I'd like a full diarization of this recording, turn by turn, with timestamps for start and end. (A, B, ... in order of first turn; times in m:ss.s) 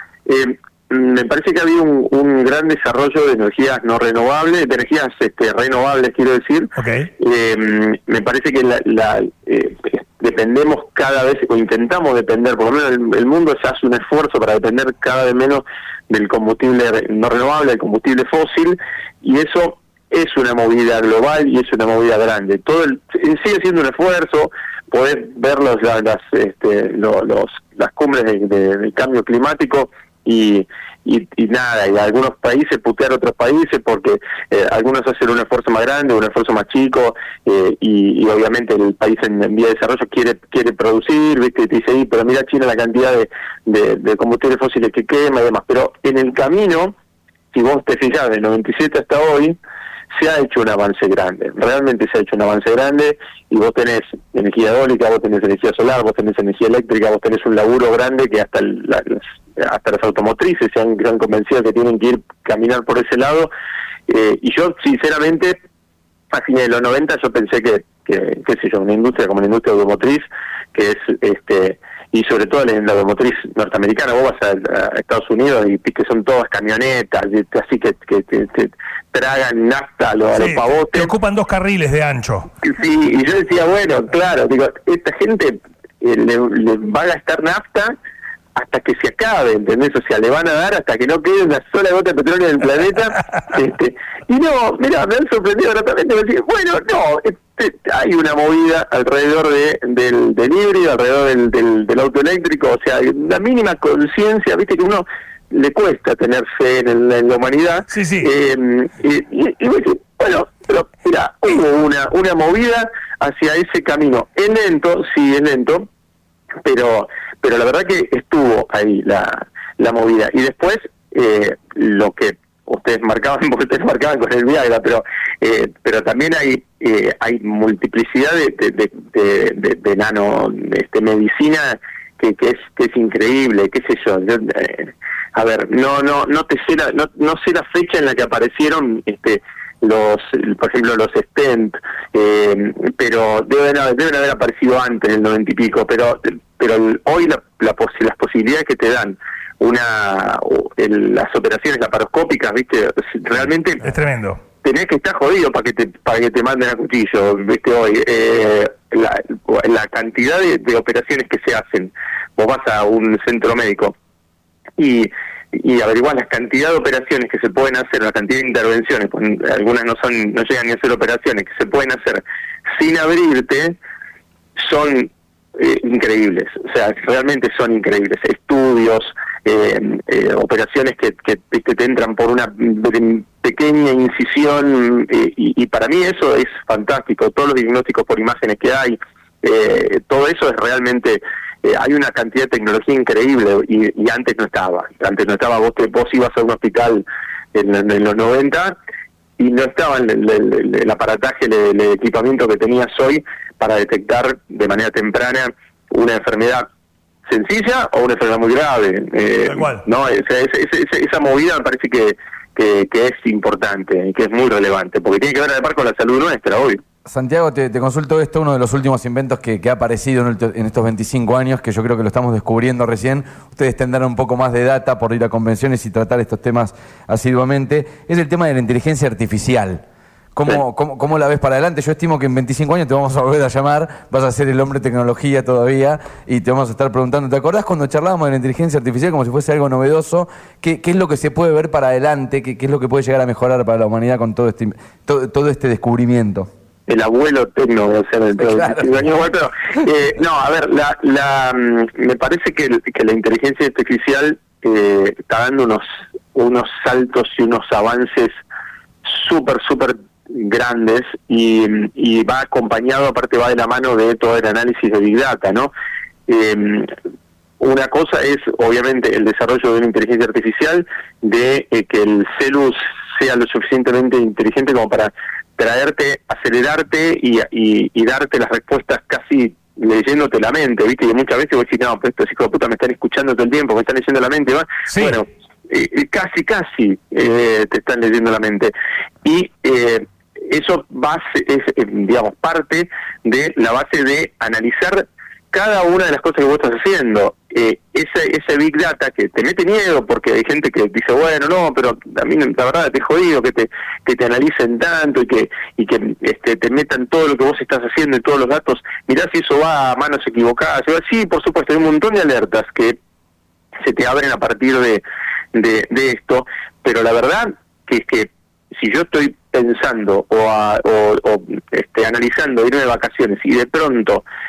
0:00.2-0:47.0 A
0:06.8-0:07.1 B
0:47.5-0:49.6 A
0:50.1-1:03.5 A
1:04.1-1:05.6 A
1:06.3-1:21.1 A
1:20.3-1:22.5 B
1:22.6-1:28.0 A
1:28.6-1:55.9 A
1:47.9-1:48.3 B
1:56.6-2:33.8 A
2:33.8-2:34.4 B
2:34.6-2:43.9 A
2:44.8-2:52.2 A
2:52.8-2:53.8 A
2:54.6-3:18.8 A
3:19.4-3:26.7 A
3:27.3-3:36.8 A
3:29.5-3:29.8 B
3:37.0-3:49.8 C
3:50.3-4:06.5 C
4:06.9-4:18.3 A
4:08.4-4:08.9 C
4:19.0-4:25.7 A
4:26.3-4:26.9 A
4:27.6-4:48.7 A
4:44.9-4:45.2 B
4:49.2-5:13.0 A
5:13.8-5:15.0 A
5:15.5-5:24.2 A